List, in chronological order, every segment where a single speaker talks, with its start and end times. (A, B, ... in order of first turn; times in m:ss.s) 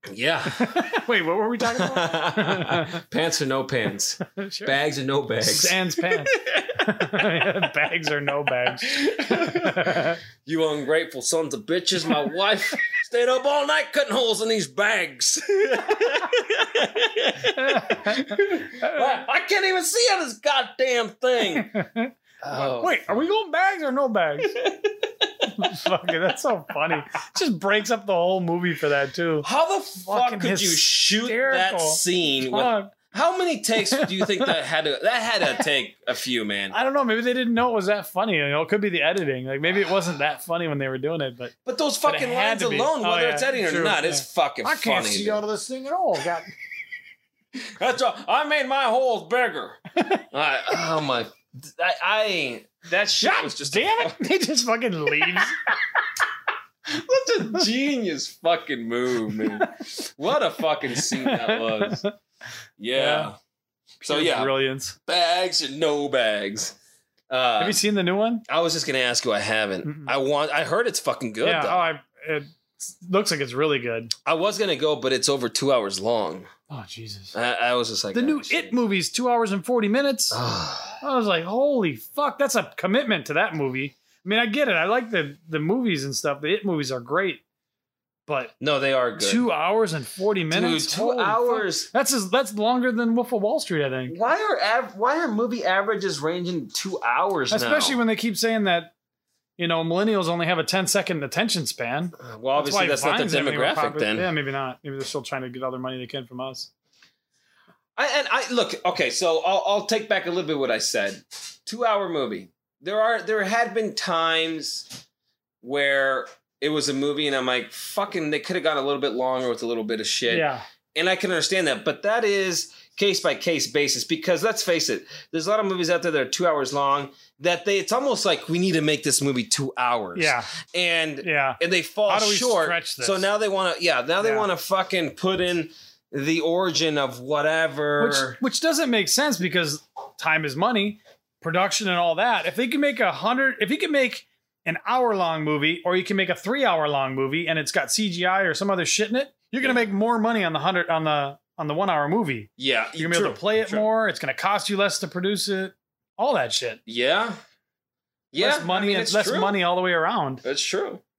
0:00.1-0:01.0 A
0:00.4-0:03.0 B
0:01.6-0:07.5 A
0:04.2-0:04.8 B
0:05.4-0:10.2 B
0:08.6-0:21.7 A
0:17.5-0:19.1 B
0:21.4-0:24.6 B
0:22.4-0:23.2 A
0:24.5-0:25.7 A
0:25.6-0:29.5 B
0:29.4-0:36.7 A
0:30.0-0:32.9 B
0:33.9-0:34.5 B
0:36.7-0:41.5 B
0:41.6-0:45.4 A
0:42.0-0:46.5 B
0:47.6-0:54.2 A
0:53.2-0:55.6 B
0:56.9-1:02.0 A
1:01.0-1:02.1 B
1:02.8-1:03.4 A
1:02.9-1:03.3 B
1:04.0-1:05.0 B
1:04.0-1:04.5 A
1:05.0-1:06.8 A
1:07.3-1:07.8 A
1:07.6-1:08.4 B
1:08.5-1:11.8 A
1:09.8-1:10.1 B
1:11.4-1:14.1 B
1:14.2-1:16.5 A
1:16.7-1:17.3 B
1:17.3-1:18.7 A
1:18.1-1:20.4 B
1:20.3-1:21.0 A
1:21.0-1:27.4 B
1:28.3-1:28.5 B
1:28.6-1:29.4 A
1:29.2-1:34.2 B
1:30.5-1:31.9 A
1:34.1-1:38.0 A
1:37.5-1:38.9 B
1:39.6-1:46.7 B
1:42.2-1:44.3 A
1:48.0-1:55.0 A
1:55.6-2:18.4 A
2:00.3-2:00.6 B
2:10.1-2:10.5 B
2:11.2-2:13.2 B
2:14.2-2:14.4 B
2:18.0-2:36.8 B
2:32.6-2:33.9 A
2:36.8-2:37.4 A
2:38.3-2:39.5 A
2:38.4-2:40.4 B
2:40.4-2:41.0 A